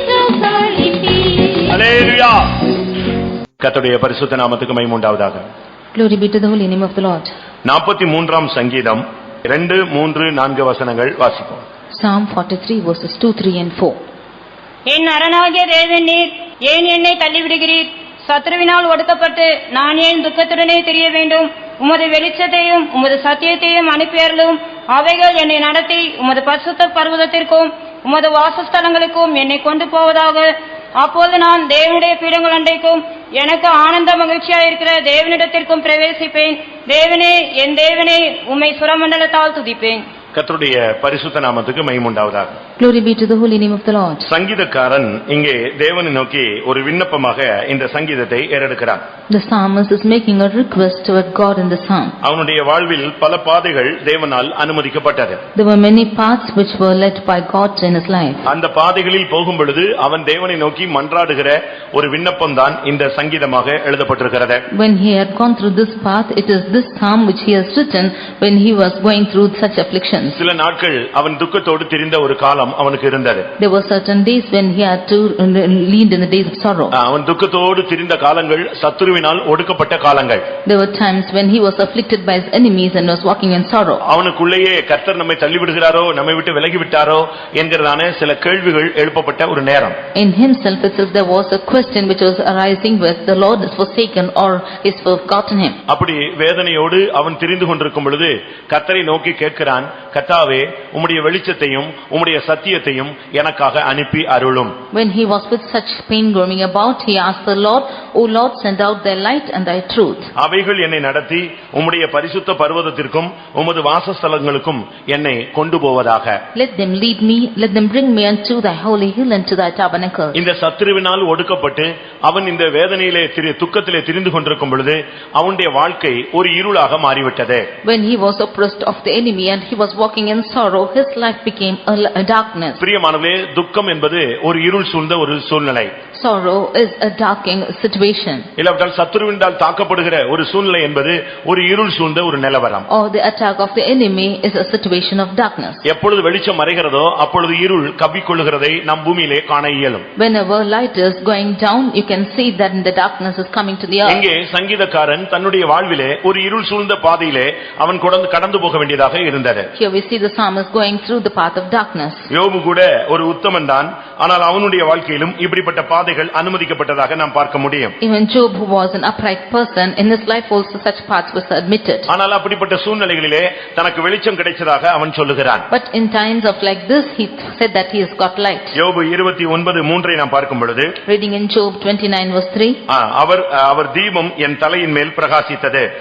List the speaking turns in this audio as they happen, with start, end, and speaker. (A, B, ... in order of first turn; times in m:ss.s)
0:01.6-0:02.6 A
0:03.6-0:05.4 A
0:05.9-0:07.3 B
0:07.6-0:11.6 A
0:11.9-0:14.0 B
0:14.9-0:40.0 C
0:40.3-0:42.6 A
0:42.8-0:44.3 B
0:44.2-0:49.0 A
0:49.3-0:52.1 B
0:52.2-0:55.4 A
0:55.6-0:58.4 B
0:58.5-1:04.6 A
1:04.7-1:10.4 B
1:10.4-1:13.4 A
1:13.6-1:16.9 B
1:16.9-1:20.4 A
1:20.6-1:24.0 B
1:24.0-1:30.0 A
1:30.1-1:35.8 B
1:35.9-1:44.7 A
1:44.9-1:50.3 B
1:50.4-1:56.4 A
1:56.5-2:00.4 B
2:00.3-2:07.6 A
2:07.8-2:12.8 B
2:12.8-2:15.9 A
2:16.2-2:18.5 B
2:18.6-2:22.8 A
2:22.9-2:25.8 B
2:25.8-2:30.0 A
2:30.2-2:34.2 B
2:34.0-2:39.7 A
2:39.8-2:42.3 B
2:42.3-2:47.9 A
2:48.0-2:52.1 B
2:52.1-2:55.6 A
2:55.7-2:58.7 B
2:58.7-3:00.9 A
3:01.0-3:02.8 B
3:02.9-3:05.9 A